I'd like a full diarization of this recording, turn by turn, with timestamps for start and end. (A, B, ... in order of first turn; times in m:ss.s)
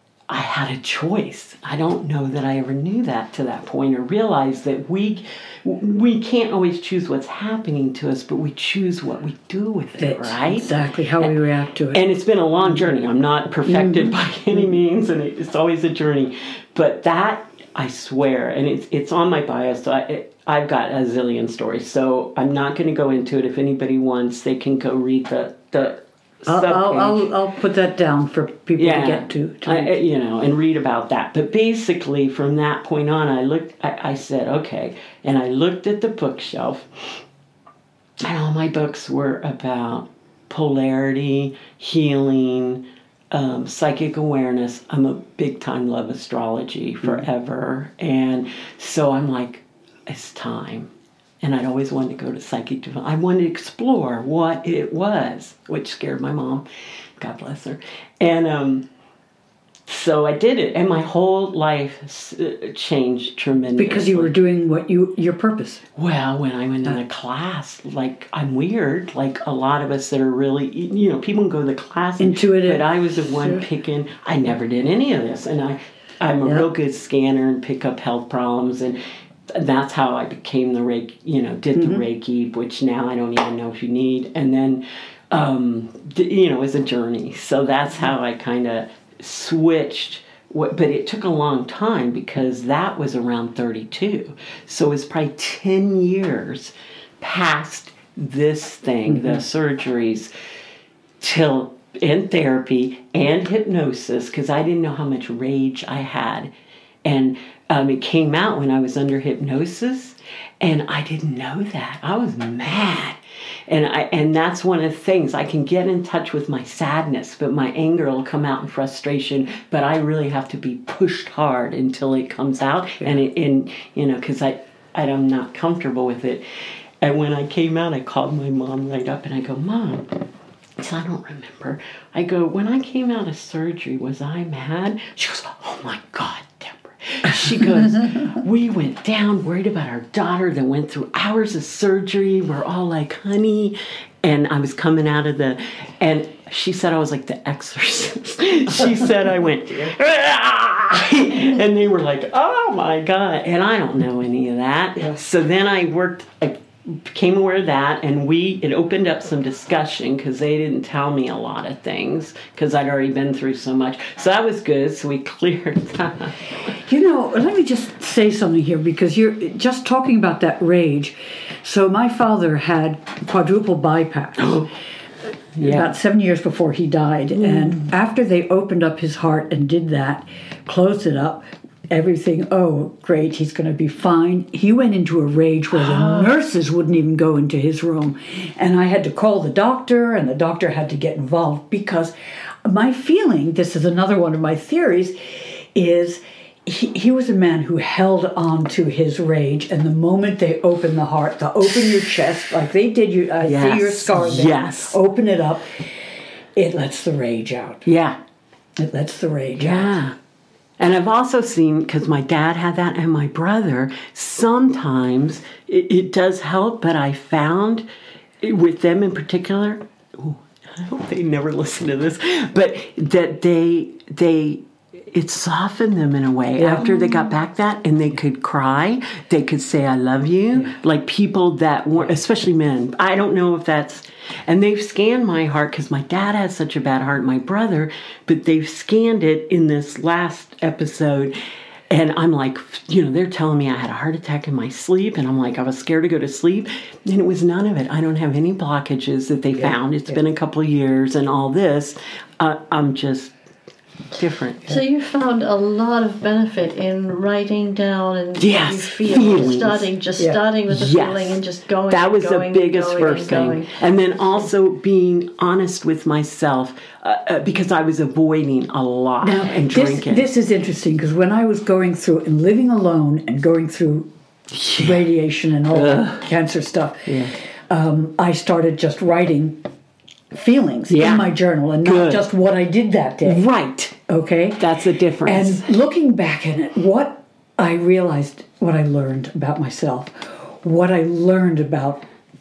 0:00.3-0:11.3 A
0:10.0-0:12.0 B
0:11.9-0:27.3 A
0:13.6-0:14.6 B
0:26.4-0:30.0 B
0:28.8-0:37.2 A
0:38.2-0:50.9 A
0:51.4-0:56.6 A
0:57.2-0:58.8 A
0:59.9-1:04.3 A
1:03.8-1:05.8 B
1:06.0-1:19.0 A
1:12.2-1:13.6 B
1:19.5-1:40.3 A
1:21.7-1:22.0 B
1:39.1-1:39.4 B
1:41.2-1:46.5 A
1:47.0-2:06.4 A
2:07.0-2:10.1 A
2:10.8-2:46.4 A
2:46.8-2:54.6 B
2:54.4-2:54.7 A
2:55.6-2:55.9 A
2:55.6-3:12.1 B
2:57.4-2:57.9 A
3:05.8-3:06.3 A
3:12.6-3:25.8 B
3:23.4-3:25.0 A
3:26.6-3:27.9 B
3:27.9-3:28.2 A
3:28.8-3:30.0 B
3:29.6-3:30.2 A
3:30.8-3:37.9 A
3:38.4-4:01.3 A
3:46.6-3:47.3 B
4:01.9-4:13.3 A
4:09.6-4:10.1 B
4:14.2-4:14.8 A
4:14.6-4:23.8 C
4:18.4-4:19.9 A
4:20.7-4:30.3 A
4:29.2-4:34.1 B
4:34.5-4:35.0 A
4:34.8-4:39.6 B
4:35.7-4:36.3 A
4:37.1-4:37.3 A
4:40.3-4:43.5 B
4:40.9-4:41.3 A
4:41.8-4:42.2 A
4:43.2-4:44.0 A
4:44.1-4:52.0 B
4:44.6-4:45.6 A